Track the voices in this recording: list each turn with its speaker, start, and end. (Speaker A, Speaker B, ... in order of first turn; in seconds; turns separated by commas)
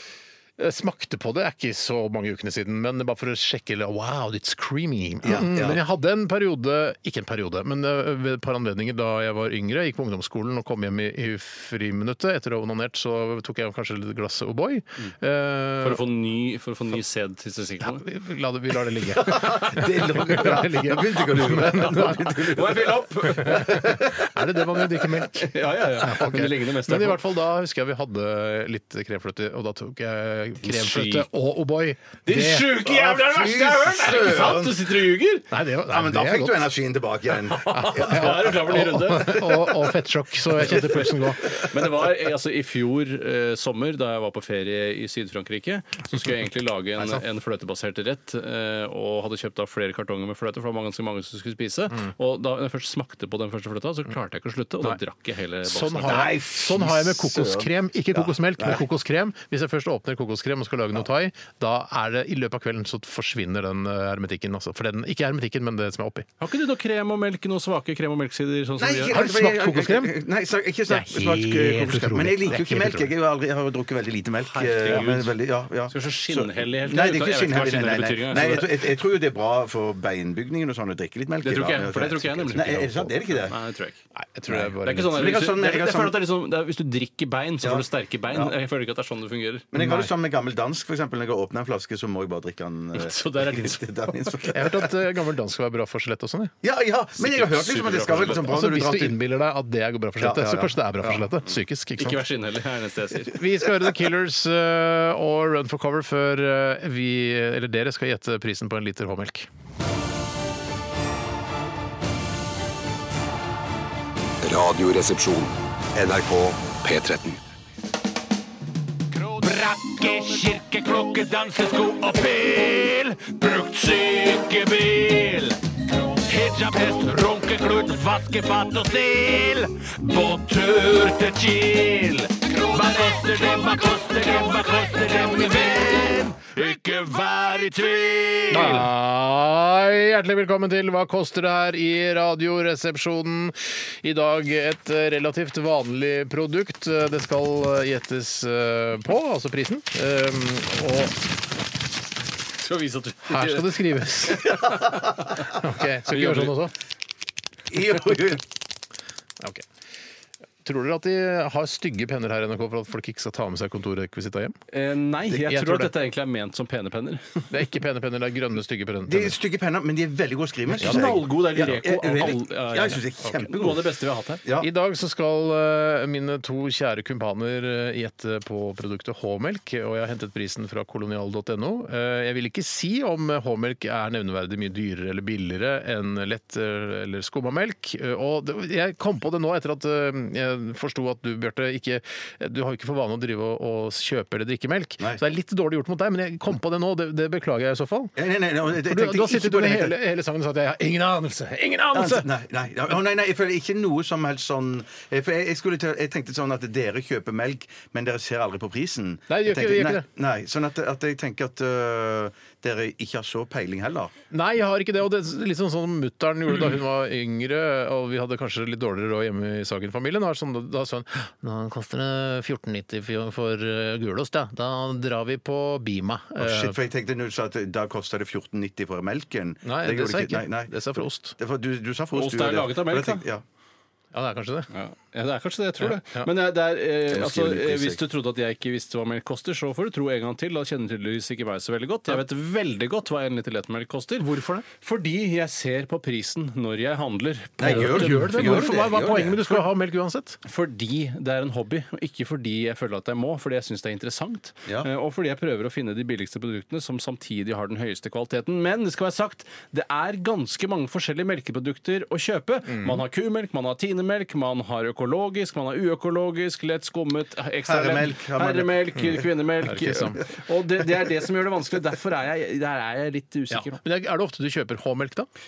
Speaker A: 0.6-16.0, Speaker B: 5.2-5.8, Speaker C: 15.8-18.0, Speaker A: 17.8-22.5, Speaker B: 19.2-24.3, Speaker C: 21.8-23.8, Speaker A: 23.3-32.8, Speaker C: 25.3-27.2, Speaker C: 30.6-31.3, Speaker C: 32.2-35.5, Speaker B: 32.8-34.9, Speaker A: 35.5-36.7, Speaker B: 35.9-39.7, Speaker C: 37.6-39.4, Speaker A: 37.7-41.6, Speaker C: 41.6-56.3, Speaker A: 55.6-66.3, Speaker B: 56.0-58.8, Speaker C: 66.4-69.2, Speaker B: 68.8-83.5, Speaker A: 69.1-70.2, Speaker A: 70.9-73.1, Speaker C: 74.4-75.3, Speaker C: 75.9-78.9, Speaker C: 81.4-84.0, Speaker A: 82.6-83.1, Speaker A: 84.1-85.4, Speaker B: 84.5-86.2, Speaker C: 84.8-89.7, Speaker B: 87.6-88.5, Speaker B: 89.7-94.9, Speaker A: 89.7-90.1, Speaker C: 92.9-94.1, Speaker A: 94.5-96.5, Speaker B: 96.6-99.2, Speaker C: 97.2-98.5, Speaker A: 98.4-102.2, Speaker B: 100.2-101.3, Speaker C: 102.0-103.4, Speaker A: 103.3-109.5, Speaker D: 114.4-117.4, Speaker E: 119.2-125.6, Speaker E: 126.1-138.8, Speaker A: 138.5-151.2, Speaker C: 152.6-155.4, Speaker A: 153.2-154.8, Speaker A: 155.5-156.7, Speaker C: 156.1-156.6, Speaker B: 157.7-158.4, Speaker A: 159.4-159.7, Speaker A: 160.6-164.6, Speaker C: 164.7-167.5, Speaker A: 165.3-165.9, Speaker A: 167.5-169.4, Speaker B: 169.1-174.7, Speaker A: 170.8-171.2, Speaker C: 170.8-174.4, Speaker A: 174.6-198.1, Speaker B: 198.2-200.0, Speaker A: 198.8-202.3, Speaker B: 201.9-214.1, Speaker A: 209.3-210.1, Speaker A: 214.3-226.8, Speaker B: 226.4-233.4, Speaker A: 229.6-231.4, Speaker C: 232.1-233.2, Speaker A: 234.1-234.7, Speaker C: 234.7-248.6, Speaker A: 235.8-236.3, Speaker B: 237.1-238.0, Speaker A: 244.2-244.6, Speaker B: 247.6-249.6, Speaker A: 247.6-250.4, Speaker C: 250.4-273.8, Speaker A: 262.6-263.0, Speaker B: 267.6-269.1, Speaker A: 269.6-270.2, Speaker A: 273.5-275.3